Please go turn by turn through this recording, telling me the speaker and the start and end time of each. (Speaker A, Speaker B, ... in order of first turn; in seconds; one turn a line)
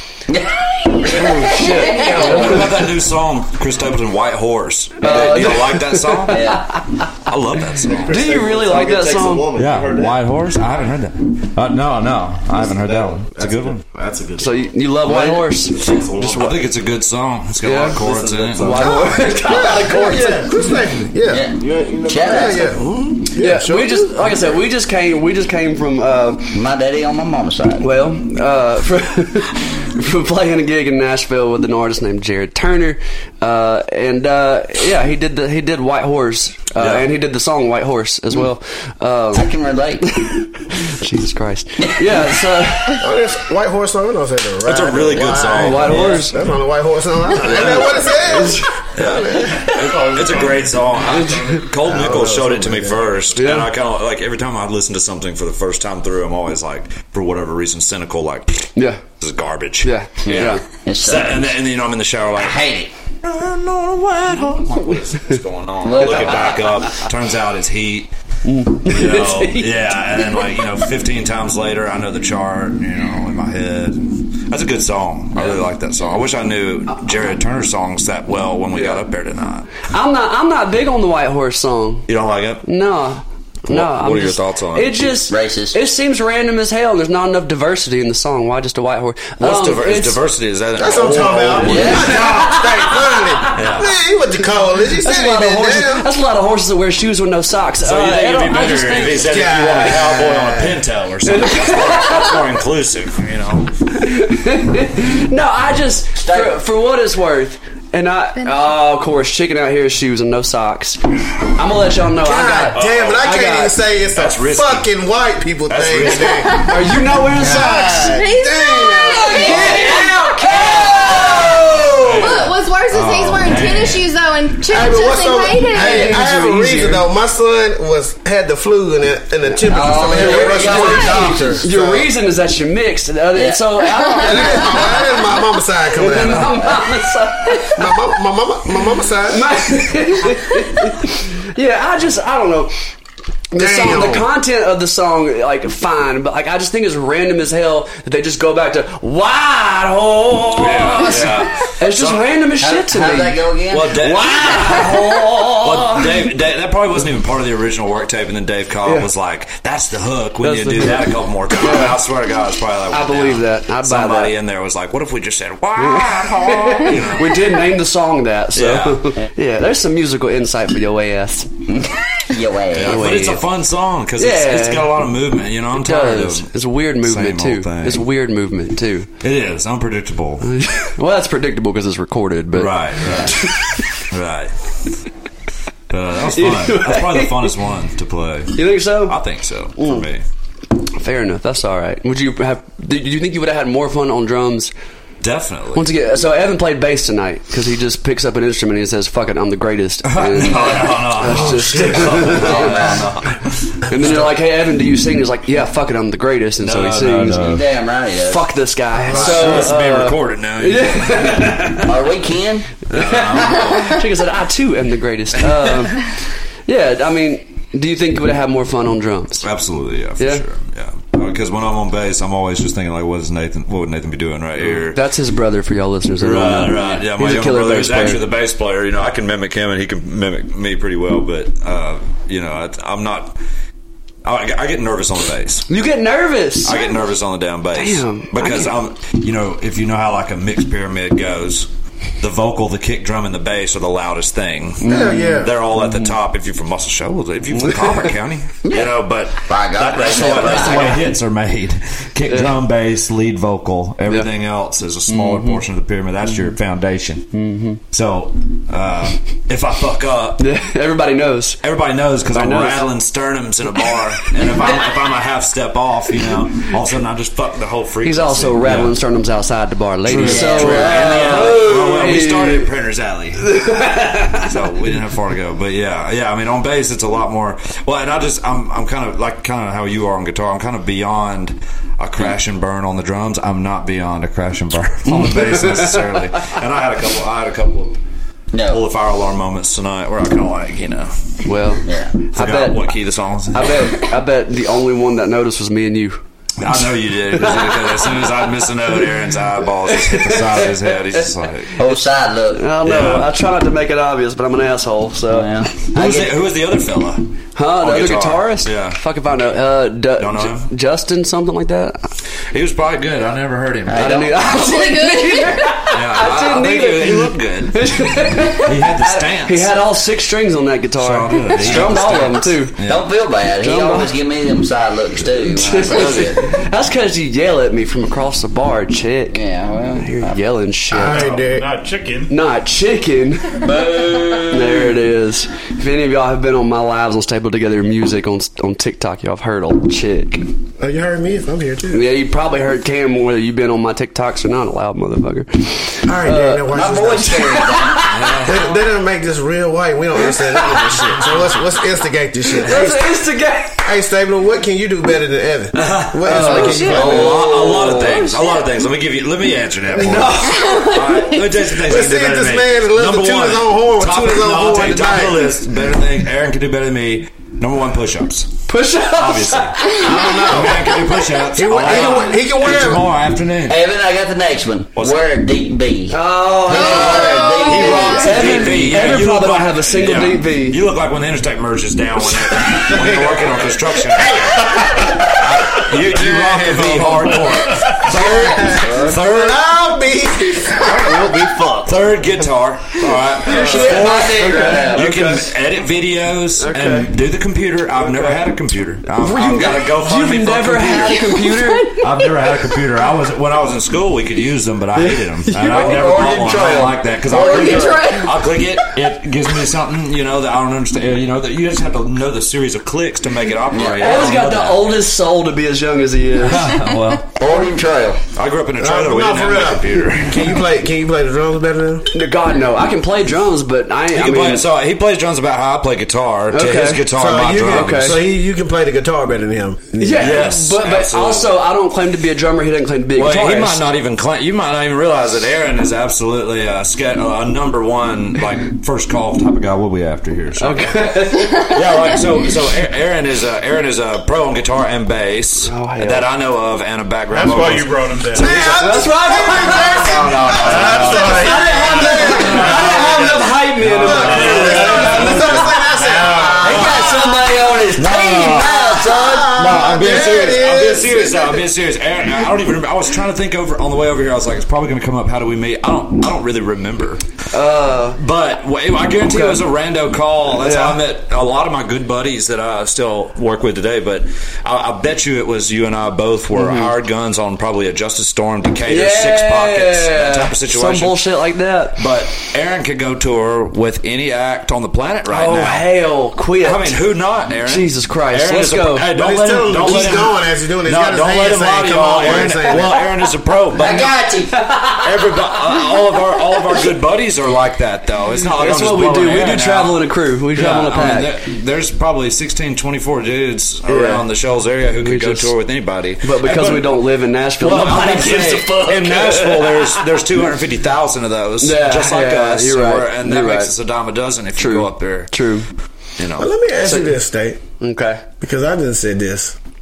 Speaker A: 0.3-2.6
Speaker B: 1.1-2.7
Speaker C: 1.7-6.6
Speaker B: 5.0-7.1
Speaker A: 5.0-5.3
Speaker A: 6.3-6.7
Speaker C: 7.2-8.2
Speaker D: 7.9-10.2
Speaker B: 8.0-9.5
Speaker C: 9.6-13.8
Speaker D: 12.9-14.7
Speaker B: 14.4-16.6
Speaker A: 15.1-15.4
Speaker D: 15.7-16.6
Speaker C: 16.3-18.9
Speaker B: 17.6-18.0
Speaker D: 17.8-20.2
Speaker B: 18.6-20.5
Speaker E: 19.5-21.4
Speaker A: 21.3-22.6
Speaker D: 21.5-22.9
Speaker E: 22.2-24.4
Speaker B: 23.3-26.6
Speaker A: 26.5-27.9
Speaker B: 27.8-43.1
Speaker C: 36.8-37.1
Speaker A: 39.3-40.1
Speaker A: 41.8-42.1
Speaker E: 42.9-50.0
Speaker C: 44.6-46.4
Speaker B: 45.5-46.4
Speaker B: 47.4-48.7
Speaker C: 47.5-47.8
Speaker C: 49.0-62.6
Speaker F: 49.5-51.7
Speaker B: 51.0-51.6
Speaker E: 51.8-53.1
Speaker B: 53.4-53.7
Speaker B: 58.8-59.0
Speaker B: 59.8-60.6
Speaker A: 60.2-61.5
Speaker A: 62.3-62.9
Speaker C: 63.2-68.1
Speaker A: 65.8-67.0
Speaker B: 66.0-66.4
Speaker B: 68.5-69.9
Speaker C: 68.8-79.7
Speaker B: 78.7-79.0
Speaker B: 79.9-82.1
Speaker C: 82.1-82.7
Speaker B: 82.6-90.2
Speaker C: 83.7-85.1
Speaker A: 85.3-85.8
Speaker C: 89.4-92.3
Speaker E: 90.8-96.1
Speaker A: 91.6-92.2
Speaker B: 92.0-92.9
Speaker C: 93.5-93.9
Speaker B: 95.0-99.6
Speaker C: 97.8-103.7
Speaker E: 99.1-100.8
Speaker B: 101.3-102.3
Speaker B: 103.9-113.8
Speaker A: 106.2-106.6
Speaker G: 108.4-108.7
Speaker E: 112.2-122.4
Speaker C: 112.7-113.2
Speaker C: 114.1-114.9
Speaker C: 115.7-116.7
Speaker B: 116.6-118.1
Speaker G: 117.6-121.6
Speaker B: 119.3-121.0
Speaker A: 119.5-119.8
Speaker A: 120.5-121.7
Speaker C: 121.0-124.1
Speaker G: 122.2-126.2
Speaker E: 124.7-132.1
Speaker B: 125.8-127.1
Speaker B: 129.5-135.1
Speaker A: 129.7-131.7
Speaker A: 133.3-133.8
Speaker E: 134.2-136.6
Speaker B: 135.9-137.9
Speaker E: 137.7-139.6
Speaker B: 139.3-142.7
Speaker B: 143.5-156.3
Speaker E: 143.6-144.3
Speaker C: 150.6-152.3
Speaker A: 152.6-154.0
Speaker C: 153.7-167.5
Speaker B: 160.4-162.0
Speaker B: 162.9-164.3
Speaker B: 165.8-171.5
Speaker C: 168.6-169.0
Speaker A: 171.7-173.2
Speaker C: 172.7-178.1
Speaker B: 172.8-173.4
Speaker B: 174.2-175.1
Speaker B: 175.8-179.1
Speaker C: 179.2-180.5
Speaker B: 180.4-183.8
Speaker C: 182.5-184.5
Speaker C: 185.9-190.2
Speaker B: 186.3-187.5
Speaker B: 188.6-189.2
Speaker B: 189.8-190.1
Speaker B: 190.9-194.7
Speaker C: 195.2-195.9
Speaker B: 195.7-202.8
Speaker C: 200.0-204.3
Speaker A: 202.2-203.2
Speaker B: 203.9-207.6
Speaker C: 206.6-207.6
Speaker A: 207.3-209.7
Speaker B: 208.3-211.9
Speaker C: 209.1-211.7
Speaker A: 211.8-212.7
Speaker C: 212.9-214.1
Speaker B: 212.9-219.5
Speaker C: 219.4-225.0
Speaker B: 224.6-228.2
Speaker C: 226.2-233.4
Speaker A: 226.7-227.1
Speaker C: 234.2-235.7
Speaker B: 235.7-236.8
Speaker C: 236.6-241.7
Speaker B: 237.8-238.7
Speaker C: 242.2-257.3
Speaker B: 244.8-246.1
Speaker E: 244.8-245.6
Speaker B: 247.6-248.1
Speaker A: 248.7-248.9
Speaker A: 249.5-251.1
Speaker B: 255.1-255.6
Speaker B: 257.3-257.8
Speaker C: 257.9-260.4
Speaker B: 260.4-261.6
Speaker C: 261.6-268.9
Speaker B: 262.3-262.9
Speaker B: 264.4-264.7
Speaker B: 268.0-272.7
Speaker C: 270.1-273.6
Speaker A: 270.1-271.6
Speaker B: 273.4-274.5
Speaker C: 274.3-288.0
Speaker B: 285.1-286.1
Speaker A: 288.5-288.8
Speaker C: 288.7-291.1
Speaker B: 291.4-292.8
Speaker A: 291.9-292.1
Speaker C: 292.4-294.0
Speaker B: 293.5-296.2
Speaker C: 296.6-301.7
Speaker B: 297.3-298.4
Speaker B: 299.9-301.3
Speaker A: 301.8-302.7
Speaker B: 302.5-305.5
Speaker C: 302.8-303.3
Speaker A: 305.3-306.4
Speaker C: 305.9-309.0
Speaker B: 307.6-312.1
Speaker C: 310.2-310.7
Speaker C: 312.5-314.2
Speaker A: 313.9-314.5
Speaker B: 313.9-322.8
Speaker G: 314.5-315.8
Speaker C: 315.9-319.8
Speaker C: 321.0-323.1
Speaker A: 322.8-326.5
Speaker B: 323.6-324.1
Speaker B: 325.4-329.4
Speaker A: 329.3-330.4
Speaker B: 329.9-331.3
Speaker E: 330.9-331.8
Speaker F: 331.0-332.3
Speaker B: 332.3-333.7
Speaker A: 333.6-334.9
Speaker B: 334.5-340.5
Speaker E: 340.8-342.1
Speaker B: 341.9-348.4
Speaker E: 346.0-347.6
Speaker A: 346.7-348.2
Speaker C: 348.1-348.7
Speaker E: 348.4-353.1
Speaker B: 350.3-351.2
Speaker B: 352.5-353.9
Speaker E: 353.8-357.4
Speaker C: 355.7-368.5
Speaker B: 356.2-358.4
Speaker A: 356.9-357.9
Speaker B: 359.9-361.0
Speaker G: 360.5-361.2
Speaker E: 361.8-365.5
Speaker B: 368.7-370.1
Speaker C: 369.1-373.8
Speaker E: 370.0-370.9
Speaker E: 371.6-373.1
Speaker A: 373.7-378.9
Speaker C: 375.0-375.2
Speaker B: 376.1-380.8
Speaker C: 376.7-389.6
Speaker G: 377.1-378.1
Speaker E: 384.2-385.2
Speaker E: 385.9-391.3
Speaker D: 390.8-392.1
Speaker C: 391.9-401.3
Speaker B: 393.4-395.5
Speaker A: 393.5-395.2
Speaker B: 396.6-397.1
Speaker B: 398.0-398.3
Speaker B: 399.2-402.1
Speaker G: 401.5-402.1
Speaker C: 402.0-415.0
Speaker B: 405.0-406.2
Speaker A: 405.6-408.1
Speaker G: 407.3-408.5
Speaker A: 413.7-414.2
Speaker B: 413.9-416.7
Speaker C: 416.4-417.3
Speaker A: 417.4-418.2
Speaker C: 418.3-420.6
Speaker E: 418.8-422.1
Speaker B: 422.1-424.7
Speaker C: 424.1-428.2
Speaker B: 426.5-427.1
Speaker E: 427.1-430.4
Speaker B: 427.6-428.2
Speaker B: 430.0-433.9
Speaker C: 430.2-431.6
Speaker C: 433.2-451.6
Speaker B: 440.6-441.8
Speaker B: 445.6-446.3
Speaker F: 447.3-448.7
Speaker E: 448.3-453.3
Speaker B: 448.7-455.7
Speaker F: 450.6-453.3
Speaker C: 452.1-453.4
Speaker E: 453.9-457.4
Speaker C: 454.0-455.6
Speaker F: 454.0-456.9
Speaker A: 456.6-459.6
Speaker C: 456.6-457.0
Speaker C: 458.0-467.2
Speaker E: 458.2-461.6
Speaker B: 467.5-468.2
Speaker C: 468.2-481.3
Speaker B: 469.2-469.6
Speaker B: 470.6-471.0
Speaker B: 476.5-476.9
Speaker B: 478.9-482.0
Speaker C: 482.0-485.9
Speaker B: 485.3-487.0
Speaker C: 486.6-494.1
Speaker B: 487.6-489.1
Speaker E: 489.1-493.0
Speaker A: 493.7-495.1
Speaker C: 495.0-515.3
Speaker B: 498.6-501.4
Speaker B: 503.9-504.3
Speaker B: 505.0-505.5
Speaker B: 506.2-510.0
Speaker B: 511.6-513.7
Speaker B: 514.6-515.7
Speaker C: 516.2-516.5
Speaker E: 516.4-517.6
Speaker B: 516.8-517.2
Speaker B: 517.8-518.2
Speaker E: 518.4-519.6